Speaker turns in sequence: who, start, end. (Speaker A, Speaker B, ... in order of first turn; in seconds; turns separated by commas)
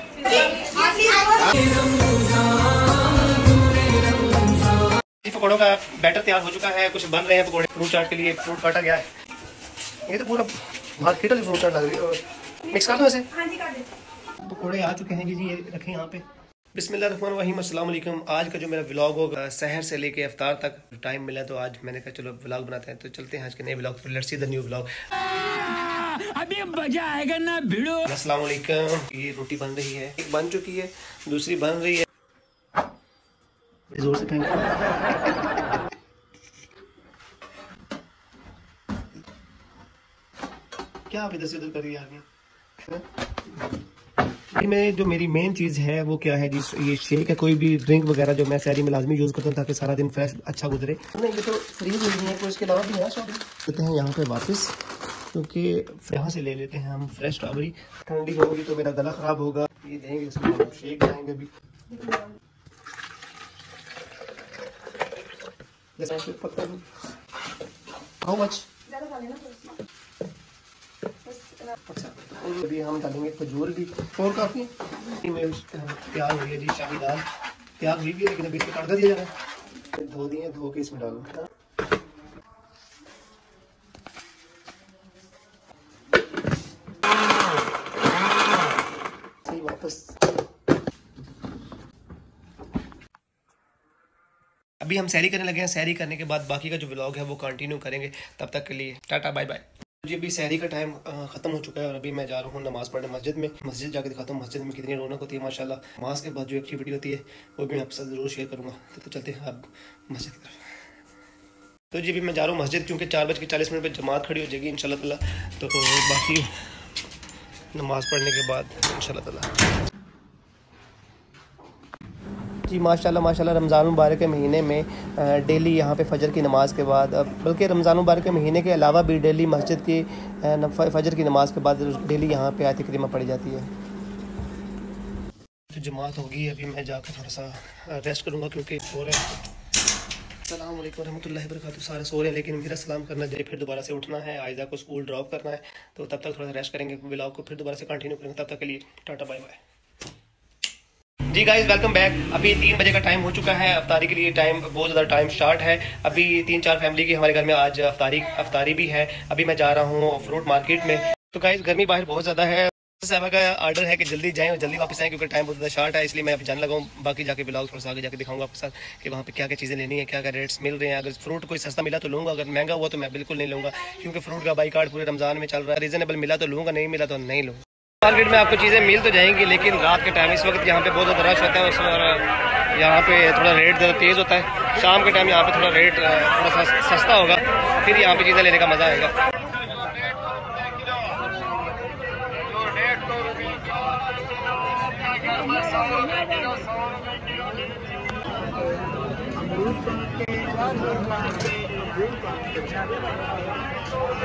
Speaker A: 0.4-2.7, Speaker B: 5.2-9.1, Speaker B: 10.1-13.4, Speaker A: 13.4-13.8, Speaker B: 14.4-24.9, Speaker A: 25.4-28.1, Speaker B: 28.0-32.1, Speaker B: 33.9-34.8, Speaker B: 41.1-42.2, Speaker B: 42.8-43.1, Speaker B: 44.5-54.8, Speaker B: 55.3-61.5, Speaker B: 66.0-66.9, Speaker B: 68.2-68.7, Speaker A: 69.1-69.6, Speaker B: 71.8-77.3, Speaker B: 77.8-81.4, Speaker B: 89.5-90.2, Speaker B: 94.8-110.7, Speaker B: 111.9-116.6, Speaker B: 117.7-119.6, Speaker B: 122.7-133.7, Speaker B: 135.7-139.3, Speaker B: 140.4-149.6, Speaker B: 151.3-189.2